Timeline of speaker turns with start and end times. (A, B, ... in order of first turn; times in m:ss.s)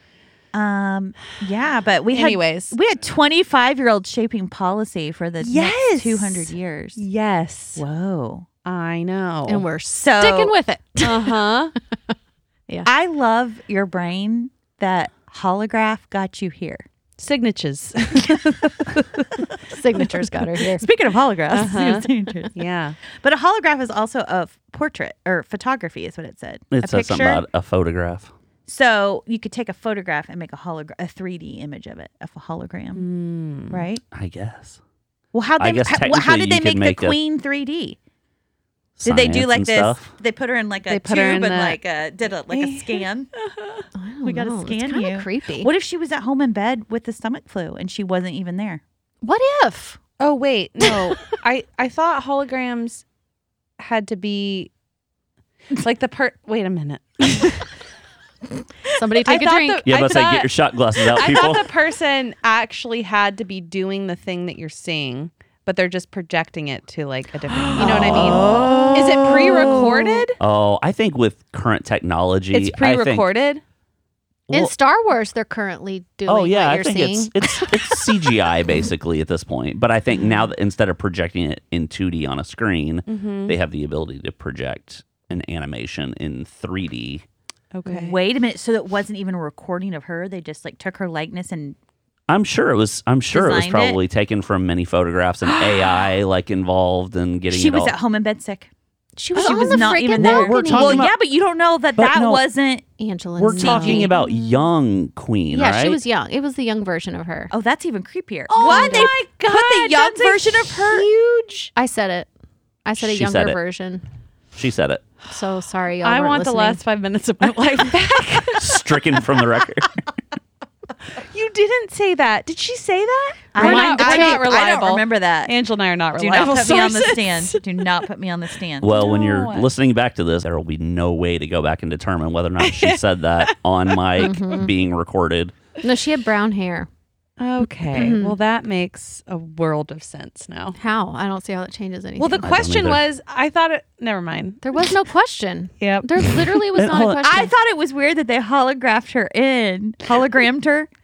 0:00.5-0:07.0 A
0:02.1-0:02.8 B
0:05.4-0:07.8 B
0:07.8-0:08.5 A
0:08.6-0:09.7 B
0:09.5-0:11.5 C
0:09.9-0:10.6 A
0:11.0-0:11.7 B
0:12.8-0:16.8 A
0:17.2-0:19.2 B
0:19.7-0:20.9 C
0:20.7-0:27.4 A
0:21.5-0:23.0 B
0:26.7-0:28.3 D
0:28.7-0:33.0 A
0:32.9-0:33.9 B
0:33.7-0:34.0 A
0:34.1-0:34.8 D
0:35.3-0:38.0 A
0:35.6-0:37.2 D
0:39.0-0:40.1 D
0:39.0-0:43.3 A
0:40.9-0:41.8 B
0:42.5-0:43.9 B
0:44.0-0:45.7 C
0:44.2-0:48.8 A
0:49.2-0:50.0 C
0:50.2-0:53.0 B
0:50.8-0:51.2 C
0:53.8-0:54.7 B
0:55.7-0:57.7 B
0:58.9-0:59.9 C
0:59.2-1:10.4 B
0:59.9-1:01.7 D
1:07.7-1:10.2 A
1:07.8-1:08.7 C
1:08.3-1:08.6 D
1:10.4-1:13.3 D
1:12.5-1:13.6 B
1:14.5-1:18.1 C
1:16.3-1:27.2 D
1:23.1-1:23.6 B
1:27.7-1:28.2 B
1:27.9-1:31.8 A
1:32.3-1:38.0 D
1:33.3-1:34.0 A
1:35.6-1:35.9 B
1:37.5-1:38.7 A
1:39.2-1:41.1 C
1:39.4-1:39.6 B
1:39.4-1:42.9 A
1:39.9-1:41.2 D
1:41.9-1:42.4 D
1:43.0-1:44.1 C
1:43.4-1:46.0 D
1:43.6-1:44.2 A
1:45.5-1:47.5 C
1:47.5-1:51.1 A
1:48.5-1:51.7 B
1:48.6-1:49.1 C
1:51.8-1:52.3 C
1:52.8-1:54.0 C
1:53.0-1:53.6 D
1:54.6-1:55.0 D
1:55.3-1:56.8 C
1:56.0-1:58.8 B
1:58.6-1:59.9 D
2:01.2-2:08.1 B
2:03.5-2:05.6 A
2:03.6-2:04.5 C
2:06.2-2:09.0 A
2:08.8-2:15.5 D
2:08.8-2:09.7 B
2:12.6-2:14.4 B
2:14.2-2:14.7 C
2:15.8-2:16.9 C
2:17.4-2:20.8 B
2:17.9-2:18.4 C
2:20.8-2:22.5 C
2:22.2-2:24.8 B
2:22.4-2:23.0 D
2:24.6-2:27.5 C
2:25.8-2:26.7 B
2:26.8-2:27.2 D
2:27.2-2:30.9 A